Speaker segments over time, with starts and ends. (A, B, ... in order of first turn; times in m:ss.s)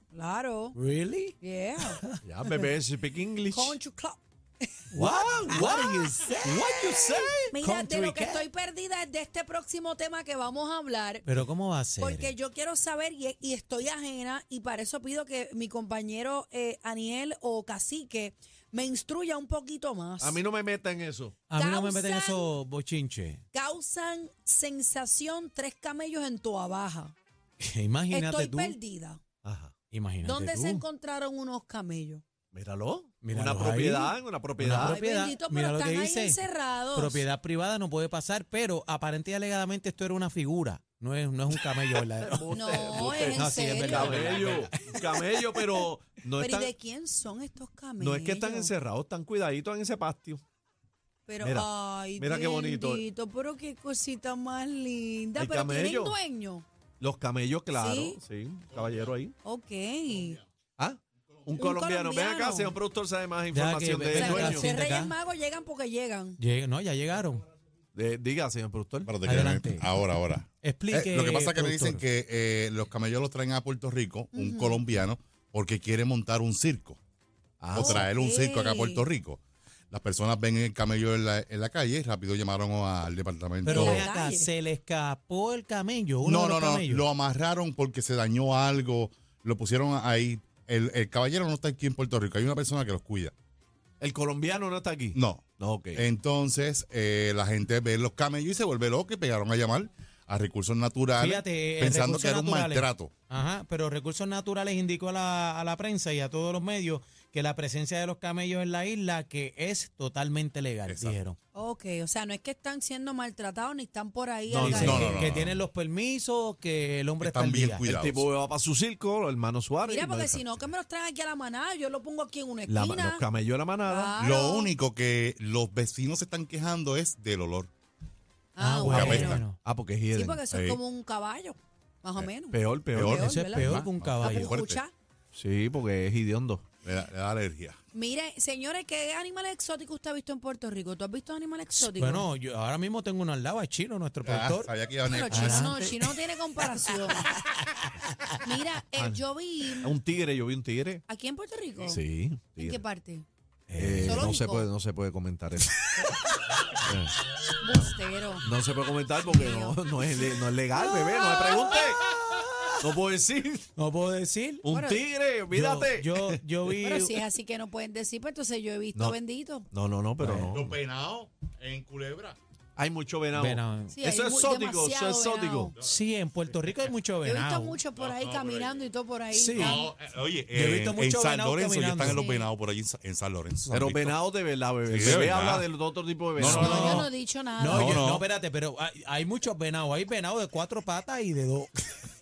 0:00.1-0:00.8 A
0:00.8-0:02.2 B
0:01.4-0:02.6 A
0:02.2-0:03.8 C
0:03.5-0:04.9 A
0:04.9-0:08.5 B
0:05.0-0:05.7 C
0:05.5-0:06.4 A
0:06.3-0:07.6 C
0:07.5-0:11.3 A
0:11.2-0:12.3 B
0:12.0-0:20.4 A
0:20.2-0:21.4 C
0:21.5-0:23.4 B
0:21.6-0:22.5 A
0:23.5-0:27.2 A
0:27.6-0:28.8 B
0:28.1-0:29.2 A
0:29.4-0:29.7 C
0:29.9-0:30.8 B
0:30.2-0:32.2 A
0:32.5-0:35.0 C
0:33.2-0:36.4 B
0:34.8-0:37.2 A
0:37.0-0:45.4 B
0:42.2-0:46.7 C
0:42.5-0:44.4 A
0:46.4-0:48.7 A
0:48.0-0:50.4 C
0:51.3-0:56.6 A
0:51.4-0:53.0 C
0:55.4-0:56.2 C
0:57.0-0:59.3 C
0:57.7-0:58.2 A
0:59.4-1:00.4 A
1:00.8-1:04.7 C
1:01.6-1:02.8 A
1:03.5-1:05.2 B
1:04.1-1:06.4 A
1:06.4-1:07.4 B
1:07.9-1:09.2 C
1:09.1-1:17.0 D
1:09.2-1:12.0 B
1:14.3-1:14.8 A
1:17.6-1:18.1 C
1:17.7-1:24.1 D
1:17.8-1:19.1 A
1:23.6-1:27.1 B
1:23.8-1:24.5 A
1:26.2-1:33.3 D
1:34.0-1:36.0 C
1:35.1-1:35.4 D
1:36.0-1:43.1 D
1:41.2-1:51.4 B
1:50.9-1:51.2 D
1:51.6-1:55.1 A
1:54.5-1:55.3 C
1:54.6-1:57.8 B
1:54.7-1:55.6 D
1:57.2-1:58.3 D
1:57.9-2:00.6 C
1:59.8-2:03.2 A
2:02.7-2:04.1 C
2:03.9-2:04.7 A
2:04.2-2:07.7 D
2:08.6-2:09.4 A
2:08.6-2:09.6 B
2:08.9-2:09.4 D
2:08.9-2:10.4 C
2:10.1-2:14.9 A
2:10.5-2:10.8 D
2:12.5-2:13.3 C
2:12.9-2:14.8 D
2:13.2-2:14.6 B
2:15.4-2:16.6 C
2:16.8-2:17.8 D
2:17.9-2:22.3 A
2:21.8-2:24.7 B
2:24.2-2:25.7 D
2:25.1-2:27.3 A
2:25.3-2:27.7 B
2:28.4-2:29.9 A
2:29.8-2:31.0 C
2:31.1-2:32.0 A
2:31.8-2:32.8 C
2:32.6-2:33.3 A
2:33.7-2:34.4 B
2:33.8-2:36.1 C
2:34.0-2:34.7 A
2:35.8-2:36.1 B
2:36.8-2:37.2 C
2:37.6-2:38.5 A
2:38.4-2:42.0 C
2:39.3-2:39.8 A
2:40.7-2:41.8 A
2:42.3-2:42.8 B
2:42.8-2:43.7 C
2:43.8-2:44.7 B
2:44.6-2:46.8 C
2:44.7-2:45.1 A
2:45.5-2:47.2 B
2:46.8-2:49.7 A
2:49.7-2:50.7 C
2:50.2-2:50.6 B
2:50.4-2:52.4 D
2:52.8-2:55.7 C
2:53.4-2:54.0 B
2:53.9-2:55.8 A
2:55.8-2:57.8 B
2:57.2-2:59.9 A
2:58.0-2:58.8 D
2:59.3-2:59.9 B
2:59.5-3:04.2 D
3:00.5-3:02.2 B
3:02.0-3:02.5 A
3:03.7-3:07.0 C
3:04.9-3:05.7 D
3:06.4-3:07.1 D
3:06.4-3:11.7 B
3:06.6-3:07.9 A
3:07.7-3:08.2 D